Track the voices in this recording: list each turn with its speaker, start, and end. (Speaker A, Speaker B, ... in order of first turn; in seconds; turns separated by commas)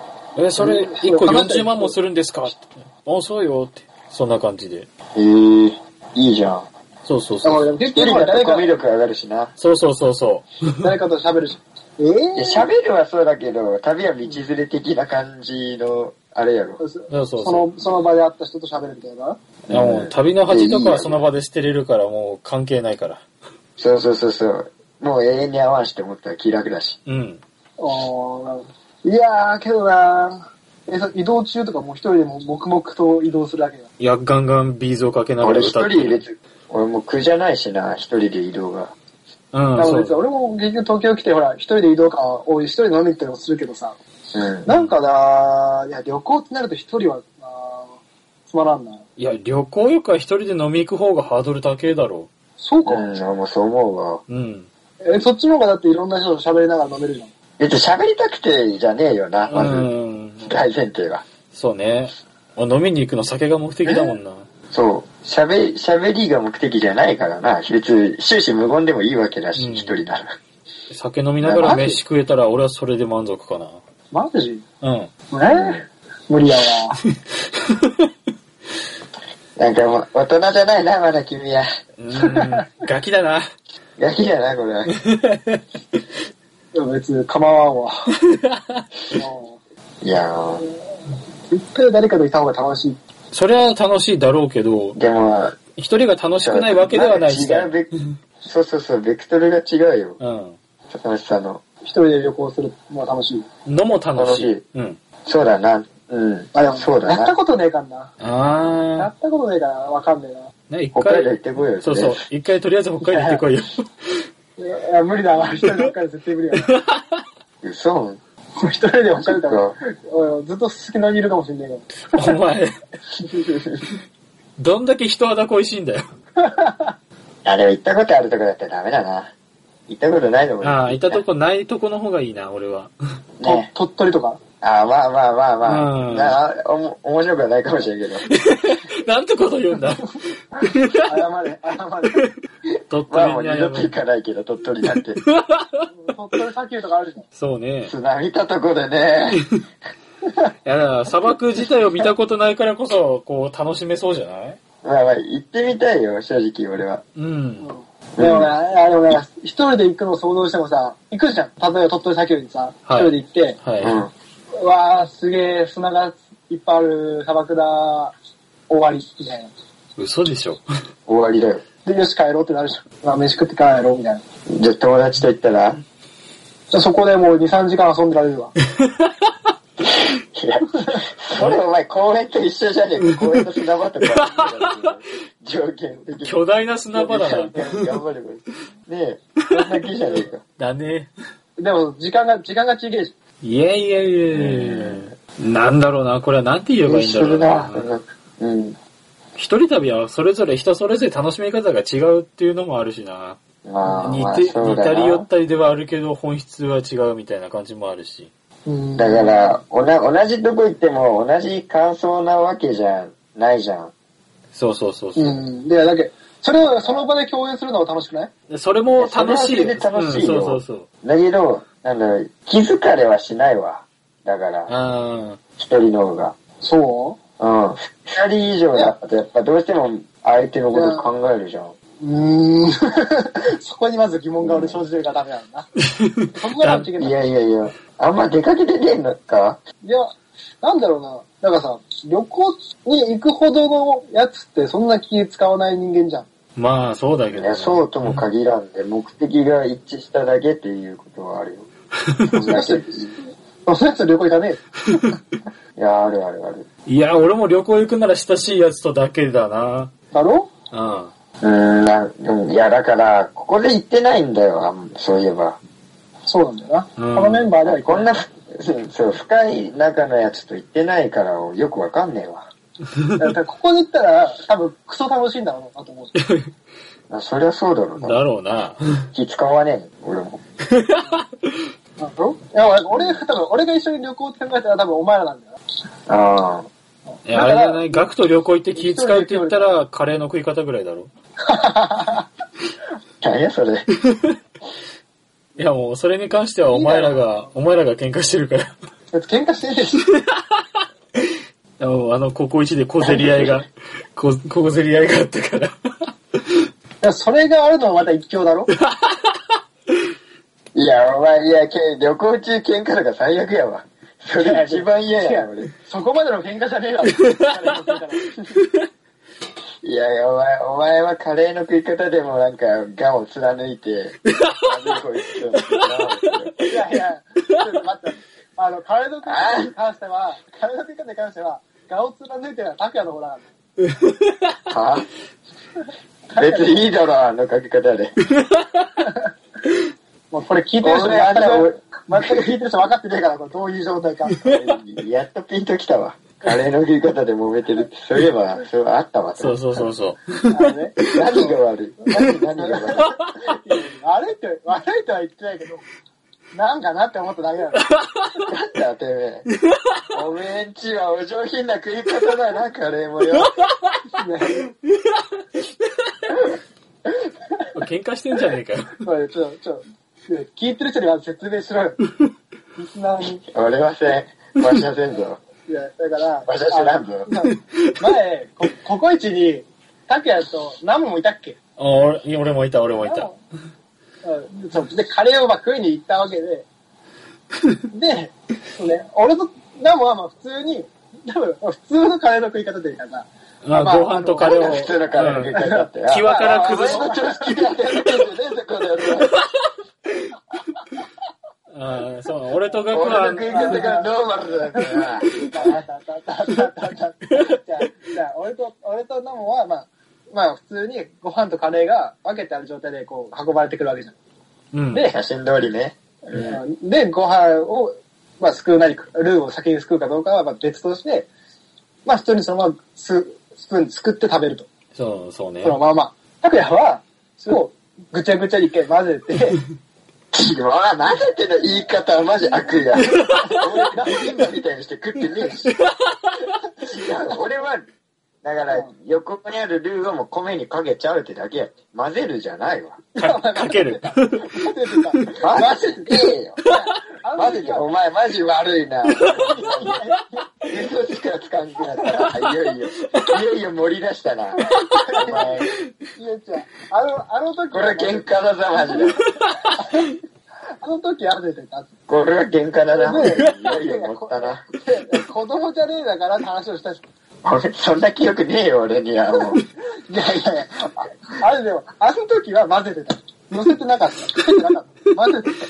Speaker A: 0.4-4.9, Speaker B: 0.6-1.9, Speaker C: 5.2-6.7, Speaker A: 7.0-7.7, Speaker B: 7.4-8.8, Speaker C: 7.9-9.5, Speaker A: 9.6-10.7, Speaker B: 10.8-12.7, Speaker C: 12.4-16.8, Speaker B: 16.8-19.4, Speaker A: 17.1-17.7, Speaker C: 19.7-21.2, Speaker A: 19.7-23.2, Speaker C: 23.8-27.0, Speaker A: 27.1-27.4, Speaker B: 27.8-33.9, Speaker A: 34.0-36.2, Speaker C: 35.4-38.9, Speaker A: 39.5-40.2, Speaker B: 39.8-44.0, Speaker C: 44.3-44.7, Speaker B: 44.7-49.0, Speaker A: 44.7-44.9, Speaker A: 49.2-52.3, Speaker B: 52.6-53.1, Speaker C: 52.9-54.2, Speaker A: 54.3-54.7, Speaker B: 55.0-57.3, Speaker C: 57.6-59.9, Speaker A: 59.5-60.6, Speaker C: 60.5-61.2, Speaker A: 61.5-64.5, Speaker C: 63.9-64.2, Speaker C: 64.7-70.4, Speaker A: 69.6-70.0, Speaker A: 70.9-73.8, Speaker B: 71.5-72.0, Speaker B: 74.1-74.6, Speaker A: 74.8-75.1, Speaker B: 75.3-77.0, Speaker C: 75.5-75.8, Speaker C: 79.6-81.7, Speaker A: 82.0-83.5, Speaker C: 84.0-84.9, Speaker A: 85.0-85.6, Speaker B: 86.7-88.1, Speaker A: 88.2-88.8, Speaker B: 89.1-89.6, Speaker C: 90.0-90.7, Speaker B: 91.5-93.0, Speaker A: 93.3-95.0, Speaker C: 95.0-95.6, Speaker A: 95.8-97.8, Speaker C: 96.4-100.2, Speaker A: 100.2-100.6, Speaker C: 100.9-101.6, Speaker B: 101.8-103.5, Speaker A: 103.7-105.0, Speaker C: 104.2-104.6, Speaker C: 105.2-107.3, Speaker B: 106.5-108.1, Speaker A: 108.2-109.1, Speaker B: 109.0-110.5, Speaker A: 110.7-113.8, Speaker C: 110.9-112.2, Speaker B: 113.1-113.4, Speaker B: 114.6-116.7, Speaker A: 116.7-117.2, Speaker C: 117.6-118.2, Speaker B: 118.6-122.2, Speaker C: 119.1-119.8, Speaker A: 122.0-122.8, Speaker C: 123.3-123.9, Speaker A: 124.6-126.1, Speaker B: 126.4-126.9, Speaker C: 127.5-129.3, Speaker C: 129.9-131.2, Speaker A: 130.6-132.9, Speaker C: 133.4-133.7, Speaker B: 133.4-134.4, Speaker C: 134.6-138.3, Speaker A: 135.6-136.4, Speaker A: 138.3-141.0, Speaker B: 141.0-142.3, Speaker A: 142.9-143.9, Speaker C: 143.1-145.2, Speaker A: 145.2-145.9, Speaker B: 145.9-147.3, Speaker A: 147.3-147.9, Speaker C: 147.9-149.5, Speaker A: 150.7-154.6, Speaker C: 154.8-157.0, Speaker A: 157.2-157.7, Speaker B: 157.6-163.6, Speaker C: 158.2-158.5, Speaker A: 162.9-164.0, Speaker C: 163.8-164.1, Speaker B: 164.5-168.1, Speaker B: 168.7-169.5, Speaker A: 170.0-170.6, Speaker C: 171.1-171.6, Speaker B: 171.8-174.2, Speaker C: 174.5-175.8, Speaker B: 176.7-178.5, Speaker A: 178.8-179.3, Speaker C: 179.8-186.4, Speaker A: 181.4-181.6, Speaker A: 184.2-184.7, Speaker A: 186.2-187.7, Speaker C: 186.9-190.4, Speaker A: 189.5-189.8, Speaker A: 190.6-191.1, Speaker B: 191.6-193.1, Speaker A: 193.4-197.9, Speaker C: 194.3-195.1, Speaker C: 196.9-198.8, Speaker A: 199.4-203.4, Speaker C: 203.7-205.3, Speaker A: 204.0-208.3, Speaker B: 208.7-209.6, Speaker C: 209.0-213.9, Speaker A: 214.5-215.4, Speaker B: 215.2-218.3, Speaker C: 216.6-217.1, Speaker A: 218.5-220.9, Speaker C: 219.0-224.7, Speaker A: 224.7-225.4, Speaker C: 225.6-226.3, Speaker B: 226.6-227.2, Speaker C: 227.4-231.8, Speaker B: 230.7-231.1, Speaker B: 232.0-235.7, Speaker C: 234.4-234.8, Speaker A: 236.0-236.9, Speaker B: 236.3-237.2, Speaker C: 236.9-239.6, Speaker B: 239.8-246.3, Speaker A: 246.6-248.2, Speaker C: 247.3-251.7, Speaker B: 252.3-252.9, Speaker C: 252.3-253.1, Speaker B: 253.7-255.2, Speaker C: 255.8-256.7, Speaker A: 256.9-259.9, Speaker B: 260.1-260.5, Speaker A: 260.7-261.1, Speaker C: 261.4-265.6, Speaker B: 266.2-268.2, Speaker A: 267.0-267.5, Speaker C: 267.6-272.5, Speaker B: 273.2-276.1, Speaker A: 276.2-276.5, Speaker C: 277.1-278.2, Speaker A: 278.0-279.1, Speaker C: 279.1-280.4, Speaker A: 280.7-281.6, Speaker B: 282.0-285.6, Speaker C: 282.9-283.2, Speaker C: 286.1-286.7, Speaker B: 287.2-288.1, Speaker A: 287.3-291.1, Speaker B: 288.8-289.8, Speaker B: 291.4-292.3, Speaker C: 293.2-293.9, Speaker A: 294.1-294.3, Speaker A: 295.6-298.7, Speaker B: 296.7-297.3, Speaker B: 299.1-300.0, Speaker A: 300.0-300.6, Speaker A: 301.8-306.1, Speaker C: 303.0-303.6, Speaker B: 307.0-308.7, Speaker A: 308.8-309.5, Speaker C: 310.8-315.7, Speaker B: 314.4-318.3, Speaker A: 318.5-318.9, Speaker C: 319.8-326.7, Speaker A: 324.3-324.7, Speaker A: 325.6-326.1, Speaker B: 326.7-333.5, Speaker C: 329.3-329.7, Speaker A: 333.9-334.6, Speaker C: 334.7-335.1, Speaker B: 336.3-336.9, Speaker C: 336.4-338.1, Speaker A: 338.3-338.9, Speaker B: 340.3-344.5, Speaker C: 340.8-341.8, Speaker C: 344.4-349.9, Speaker A: 349.4-351.2, Speaker B: 350.5-351.6, Speaker C: 351.1-353.2, Speaker B: 352.6-355.9, Speaker B: 356.5-358.0, Speaker A: 357.9-358.3, Speaker C: 358.5-359.5, Speaker C: 360.1-363.5, Speaker A: 363.4-363.9, Speaker B: 364.2-364.7, Speaker A: 367.7-369.0, Speaker B: 369.0-372.0, Speaker B: 372.8-373.4, Speaker C: 373.5-375.4, Speaker B: 375.7-381.6, Speaker C: 376.5-377.3, Speaker A: 381.8-383.3, Speaker B: 383.0-383.4, Speaker B: 384.2-386.7, Speaker B: 387.9-398.1, Speaker A: 393.6-395.6, Speaker C: 394.4-399.4, Speaker A: 396.1-397.2, Speaker A: 401.7-403.9, Speaker C: 402.9-405.4, Speaker B: 403.5-404.1, Speaker B: 404.7-414.1, Speaker A: 405.2-405.5, Speaker A: 414.7-415.1, Speaker B: 414.9-415.2, Speaker C: 415.1-416.6, Speaker B: 416.3-421.3, Speaker B: 422.1-424.7, Speaker A: 424.9-425.8, Speaker B: 425.6-429.6, Speaker C: 430.3-435.7, Speaker B: 432.4-434.5, Speaker A: 433.1-433.6, Speaker A: 435.8-436.4, Speaker C: 436.8-437.9, Speaker C: 438.4-443.0, Speaker B: 443.2-447.9, Speaker A: 443.2-445.3, Speaker C: 445.4-446.6, Speaker C: 447.4-450.0, Speaker A: 449.2-449.6, Speaker B: 449.4-450.2, Speaker C: 450.7-454.6, Speaker A: 454.7-455.7, Speaker B: 454.9-459.1, Speaker C: 455.2-455.7, Speaker C: 457.7-459.2, Speaker A: 459.2-460.1, Speaker B: 460.8-461.9, Speaker C: 462.1-464.6, Speaker B: 463.0-467.0, Speaker A: 463.2-463.6, Speaker C: 467.4-469.6, Speaker B: 469.3-475.6